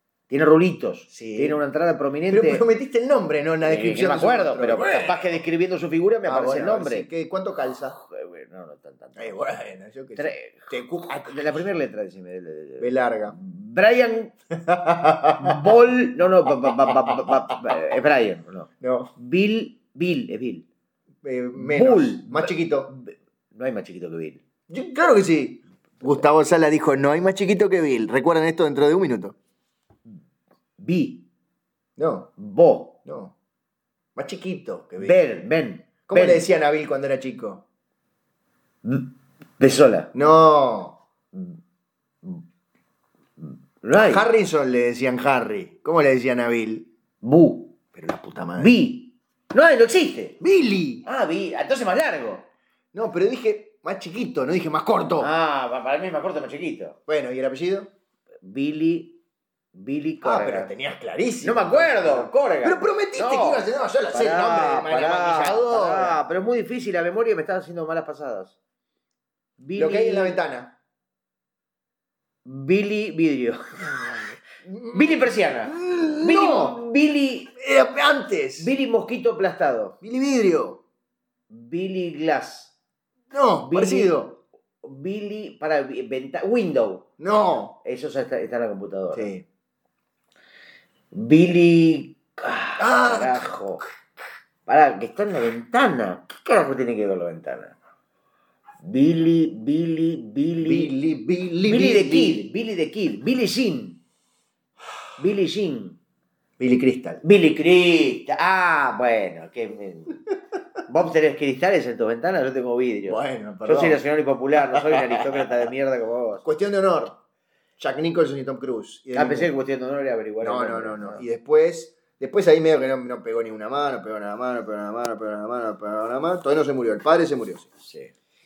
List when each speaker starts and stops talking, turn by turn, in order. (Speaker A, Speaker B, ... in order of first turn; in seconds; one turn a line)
Speaker A: 0.3-2.6
Speaker B: 1.1-1.6
Speaker B: 2.3-5.2
Speaker A: 3.6-7.1
Speaker B: 6.2-8.0
Speaker A: 7.9-9.5
Speaker B: 9.2-11.6
Speaker A: 10.2-10.7
Speaker A: 11.2-14.3
Speaker B: 12.8-13.3
Speaker B: 14.5-15.7
Speaker A: 15.3-20.7
Speaker B: 16.9-17.3
Speaker B: 18.8-19.1
Speaker B: 21.2-22.9
Speaker A: 21.5-24.4
Speaker B: 24.7-29.4
Speaker A: 30.8-31.2
Speaker B: 32.0-32.3
Speaker A: 32.4-33.0
Speaker B: 33.0-33.3
Speaker B: 34.1-35.2
Speaker A: 35.0-36.5
Speaker B: 36.1-37.6
Speaker A: 38.8-40.1
Speaker B: 40.1-41.0
Speaker A: 41.3-41.6
Speaker A: 43.4-44.2
Speaker B: 43.9-46.9
Speaker A: 47.2-47.7
Speaker B: 47.9-48.7
Speaker A: 48.6-50.4
Speaker B: 50.4-51.0
Speaker A: 51.0-52.5
Speaker B: 52.9-55.3
Speaker A: 55.2-57.0
Speaker B: 57.1-57.9
Speaker A: 58.4-59.2
Speaker A: 59.7-60.7
Speaker B: 60.2-66.2
Speaker A: 61.4-68.6
Speaker A: 69.6-70.4
Speaker B: 69.8-70.8
Speaker A: 72.4-74.3
Speaker B: 74.6-76.8
Speaker A: 74.9-77.5
Speaker B: 77.5-78.7
Speaker A: 78.6-80.0
Speaker B: 80.0-80.8
Speaker A: 81.5-82.7
Speaker B: 83.3-84.4
Speaker A: 83.6-84.2
Speaker A: 84.8-87.1
Speaker B: 87.2-87.8
Speaker A: 87.8-89.3
Speaker B: 89.1-89.4
Speaker A: 91.1-93.9
Speaker B: 92.8-93.5
Speaker A: 94.7-97.8
Speaker A: 98.8-100.9
Speaker B: 100.6-102.5
Speaker A: 101.6-104.0
Speaker A: 105.2-106.0
Speaker B: 106.6-107.2
Speaker A: 107.2-110.2
Speaker A: 110.8-116.4
Speaker B: 113.0-114.0
Speaker B: 114.7-115.4
Speaker B: 116.4-117.2
Speaker B: 117.8-119.5
Speaker A: 119.1-121.2
Speaker B: 120.4-127.7
Speaker A: 127.8-128.1